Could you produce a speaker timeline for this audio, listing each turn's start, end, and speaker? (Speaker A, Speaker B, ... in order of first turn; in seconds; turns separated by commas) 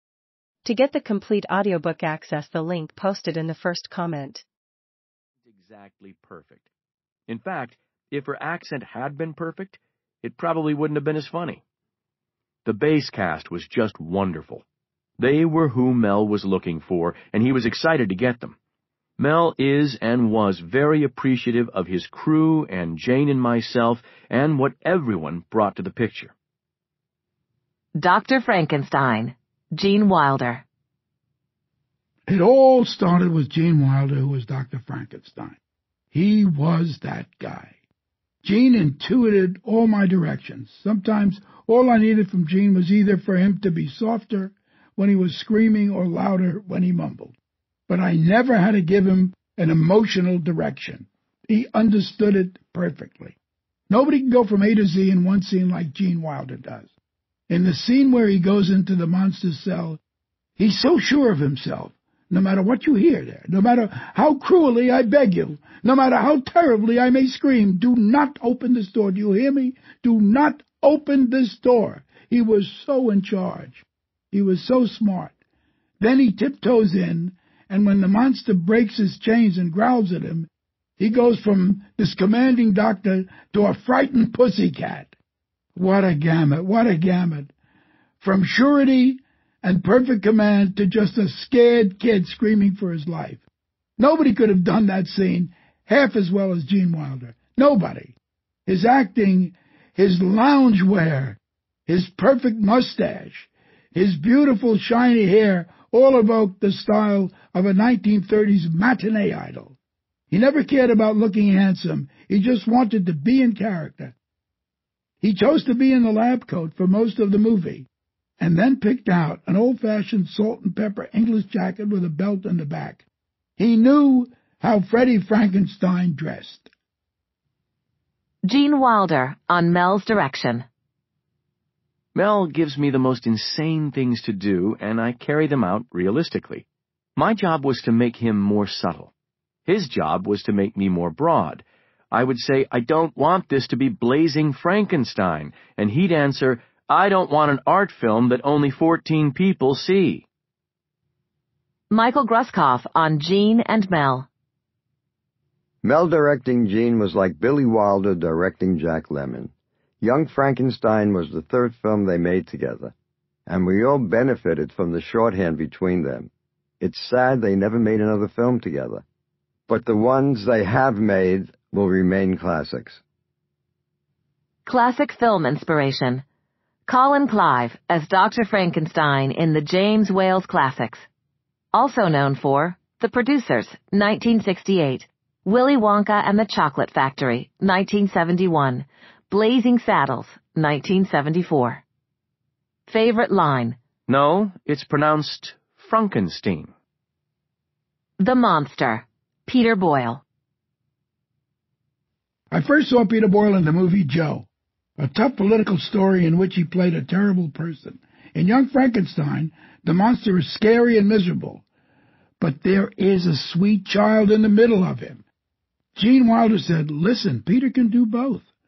Speaker A: 0.7-4.4, Speaker B: 5.5-6.7, Speaker B: 7.3-11.6, Speaker B: 12.6-14.7, Speaker B: 15.2-18.5, Speaker B: 19.2-26.3, Speaker C: 28.0-30.6, Speaker D: 32.3-35.6, Speaker D: 36.1-37.8, Speaker D: 38.4-47.4, Speaker D: 47.9-53.4, Speaker D: 53.9-56.9, Speaker D: 57.5-60.0, Speaker D: 60.6-75.3, Speaker D: 76.0-85.1, Speaker D: 85.8-87.5, Speaker D: 88.2-93.4, Speaker D: 94.0-109.8, Speaker D: 110.3-114.2, Speaker D: 115.2-117.9, Speaker D: 118.4-123.0, Speaker D: 123.6-126.7, Speaker C: 128.5-130.7, Speaker B: 132.2-136.7, Speaker B: 137.2-139.1, Speaker B: 139.7-150.2, Speaker C: 151.9-154.3, Speaker E: 155.8-159.5, Speaker E: 160.0-162.9, Speaker E: 163.5-166.3, Speaker E: 166.8-169.0, Speaker E: 169.7-173.0, Speaker C: 174.7-176.2, Speaker C: 176.9-181.1, Speaker C: 181.7-191.8, Speaker C: 192.9-193.8, Speaker B: 194.1-196.7, Speaker C: 198.2-200.2, Speaker D: 202.5-204.5, Speaker D: 205.0-211.6, Speaker D: 212.4-215.2, Speaker D: 216.0-218.5